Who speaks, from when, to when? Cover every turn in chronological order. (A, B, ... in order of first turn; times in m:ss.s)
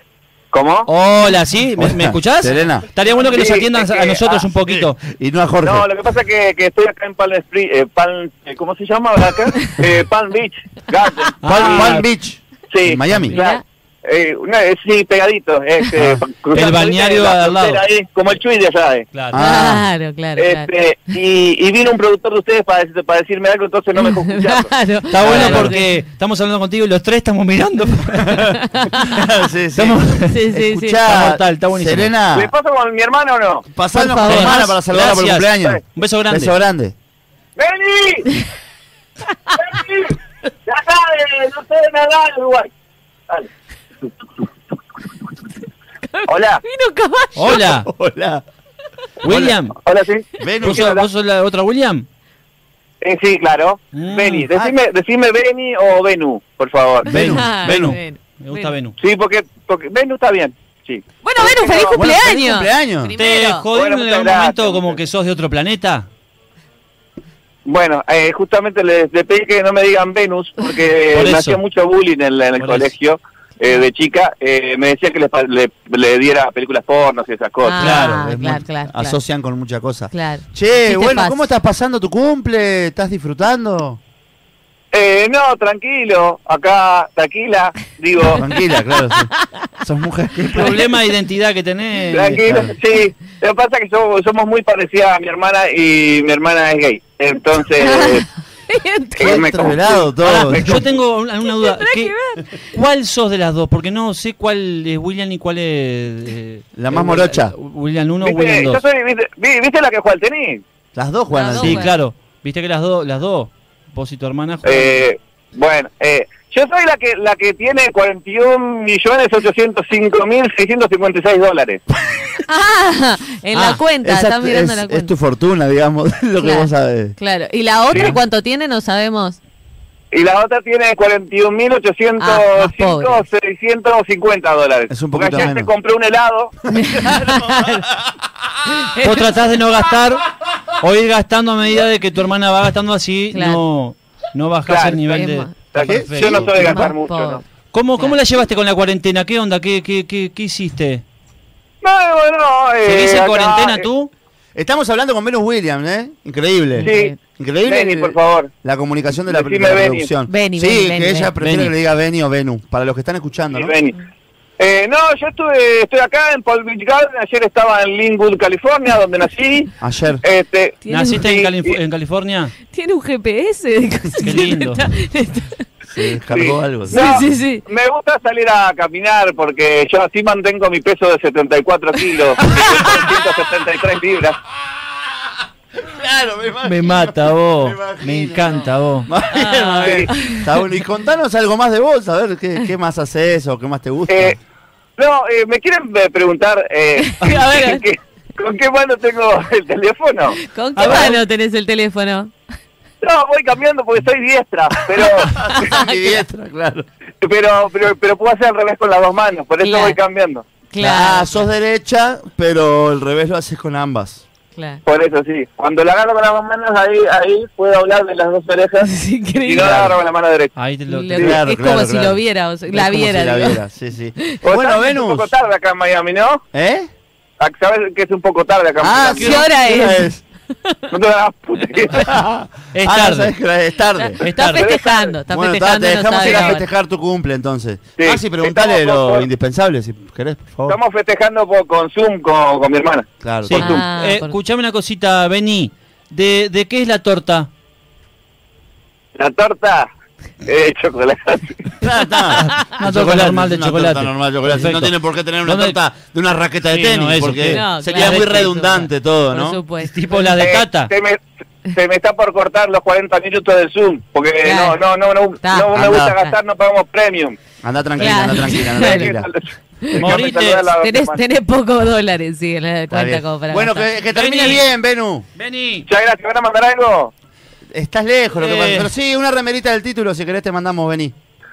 0:00.5-0:00.9 A
0:00.9-0:05.0 B
0:01.8-0:02.9 C
0:03.1-0:04.5 A
0:04.7-0:05.9 C
0:05.6-0:12.0 A
0:11.4-0:12.1 B
0:11.4-0:13.4 C
0:12.7-0:19.1 A
0:13.3-0:13.6 D
0:16.0-0:17.8 B
0:19.1-0:19.4 B
0:19.3-0:19.9 C
0:19.4-0:20.7 D
0:20.4-0:25.8 A
0:24.0-0:25.9 D
0:25.1-0:29.2 B
0:28.5-0:29.0 D
0:29.1-0:32.5 C
0:29.8-0:30.4 B
0:30.3-0:31.0 D
0:31.0-0:32.1 B
0:32.3-0:33.7 A
0:33.7-0:36.9 C
0:33.9-0:34.8 D
0:34.2-0:36.6 B
0:37.6-0:38.3 A
0:39.6-0:42.7 A
0:46.1-0:47.6 D
0:46.3-0:46.6 A
0:47.4-0:47.9 B
0:47.5-0:48.4 C
0:49.2-0:49.6 C
0:49.2-0:49.8 B
0:49.8-0:51.1 A
0:50.4-0:50.9 C
0:50.6-0:52.1 B
0:53.0-0:57.2 A
0:53.9-0:54.5 B
0:57.0-0:58.0 C
0:57.1-0:59.0 B
0:57.1-0:58.8 D
0:59.0-1:02.0 A
1:01.2-1:03.7 D
1:01.9-1:03.2 C
1:03.2-1:06.1 B
1:03.7-1:05.0 A
1:07.7-1:18.0 A
1:11.1-1:11.6 B
1:12.6-1:12.9 B
1:17.6-1:19.2 D
1:17.8-1:18.2 B
1:17.8-1:24.0 C
1:20.1-1:21.5 D
1:24.9-1:28.4 A
1:28.4-1:30.9 C
1:30.5-1:32.7 B
1:32.1-1:38.2 A
1:32.5-1:32.7 C
1:37.8-1:39.7 D
1:39.2-1:40.9 C
1:39.2-1:40.9 A
1:40.2-1:42.1 B
1:41.5-1:42.6 D
1:42.7-1:48.8 B
1:46.8-1:47.5 C
1:48.2-1:50.6 A
1:50.9-1:51.9 C
1:51.3-1:52.0 D
1:51.6-1:55.1 B
1:54.6-2:01.8 A
2:02.4-2:05.1 D
2:03.5-2:03.8 B
2:04.0-2:07.2 C
2:06.4-2:09.4 D
2:07.9-2:08.2 C
2:07.9-2:08.2 A
2:10.1-2:16.6 A
2:12.2-2:13.3 D
2:14.9-2:15.7 C
2:16.7-2:17.9 D
2:16.8-2:17.8 C
2:18.7-2:19.3 D
2:19.0-2:26.8 B
2:23.3-2:23.6 D
2:24.7-2:25.0 A
2:25.0-2:25.5 D
2:25.7-2:27.4 A
2:25.8-2:26.9 C
2:26.6-2:27.4 D
2:27.7-2:31.0 B
2:31.8-2:33.8 A
2:32.8-2:34.1 B
2:34.6-2:43.8 C
2:36.7-2:37.2 D
2:36.8-2:37.1 A
2:37.6-2:38.5 A
2:39.2-2:40.1 A
2:40.2-2:41.3 D
2:41.4-2:41.8 B
2:43.5-2:44.0 A
2:44.6-2:51.7 A
2:49.8-2:50.2 C
2:50.8-2:51.3 D
2:50.9-2:52.5 B
2:52.7-2:56.1 D
2:54.2-2:54.8 B
2:55.9-2:57.3 C
2:56.3-3:04.4 A
2:56.9-2:57.6 D
3:05.8-3:14.4 C
3:06.6-3:09.1 B
3:09.3-3:10.5 D
3:09.8-3:10.1 A
3:14.1-3:14.4 A
3:15.0-3:20.4 A
3:17.0-3:17.8 D
3:20.4-3:22.3 D
3:20.8-3:21.2 B
3:23.0-3:25.4 A
3:25.3-3:26.9 C
3:25.5-3:26.2 D
3:27.2-3:30.5 A
3:29.6-3:30.0 D
3:30.7-3:31.4 D
3:30.8-3:34.2 C
3:34.6-3:34.8 D
3:34.8-3:40.6 A
3:38.8-3:39.8 D
3:39.6-3:40.0 C
3:40.6-3:41.3 B
3:40.9-3:43.6 D
3:41.2-3:45.3 C
3:44.4-3:46.4 A
3:46.5-3:46.9 C
3:47.4-3:49.4 A
3:48.8-3:50.2 C
3:49.2-3:50.1 D
3:49.2-3:49.5 B
3:50.9-3:52.1 A
3:51.9-3:54.2 C
3:52.7-3:53.3 B
3:54.1-3:56.7 D
3:54.2-3:54.7 B
3:54.6-3:55.2 A
3:55.3-4:00.8 C
3:56.2-3:56.6 A
3:58.0-3:59.3 A
4:00.7-4:03.1 A
4:03.2-4:03.8 C
4:03.4-4:07.5 B
4:03.5-4:04.4 D
4:09.2-4:09.9 A
4:10.4-4:11.7 A
4:11.8-4:19.6 C
4:12.3-4:15.8 B
4:16.7-4:18.5 B
4:17.5-4:20.1 D
4:19.8-4:20.9 B
4:20.2-4:27.4 A
4:24.4-4:24.8 D
4:25.4-4:26.4 D
4:25.7-4:26.2 C
4:27.6-4:29.3 C
4:28.0-4:29.1 D
4:28.7-4:31.2 A
4:29.8-4:30.2 D
4:29.9-4:30.7 B
4:30.8-4:33.9 D
4:32.9-4:35.3 C
4:34.1-4:34.7 B
4:35.4-4:35.9 B
4:35.9-4:37.1 A
4:37.7-4:41.1 C
4:38.4-4:38.9 B